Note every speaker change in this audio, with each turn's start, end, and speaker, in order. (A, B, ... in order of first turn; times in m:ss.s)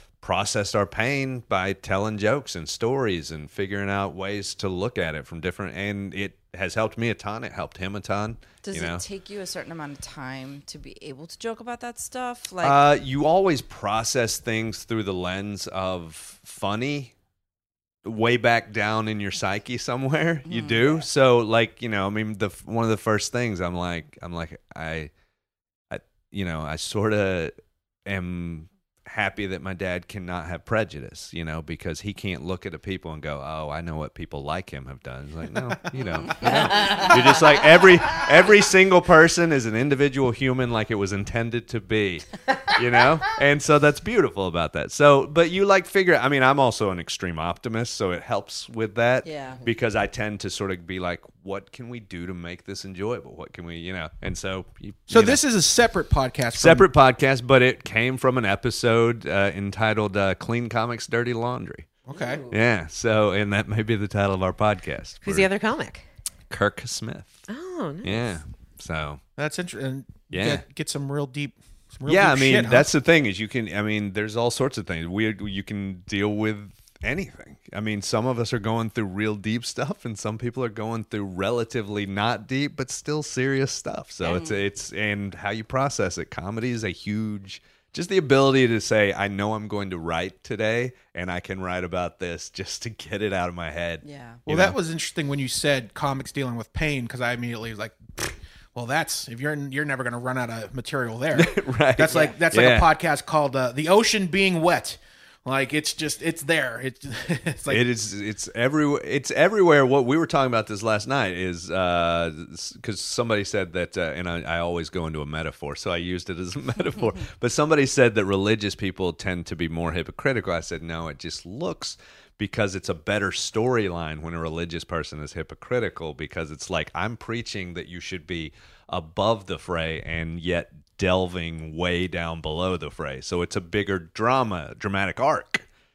0:00.2-0:09.0 A
0:08.6-0:12.8 B
0:12.6-0:17.1 A
0:18.0-0:25.1 A
0:20.5-0:21.0 B
0:25.9-0:27.5 A
0:28.1-0:55.4 A
0:36.0-0:37.2 B
0:36.7-0:37.4 C
0:49.2-0:49.6 B
0:55.1-0:56.9 D
0:56.5-1:01.9 A
1:02.1-1:02.4 D
1:02.1-1:02.5 C
1:02.5-1:05.5 A
1:05.2-1:06.0 C
1:06.5-1:07.5 A
1:07.5-1:08.4 C
1:08.0-1:09.2 A
1:09.4-1:12.9 D
1:10.3-1:10.6 A
1:12.1-1:34.8 A
1:24.2-1:24.6 B
1:34.0-1:34.4 B
1:34.5-1:47.8 D
1:41.3-1:42.9 A
1:42.1-1:42.4 C
1:47.7-2:15.7 A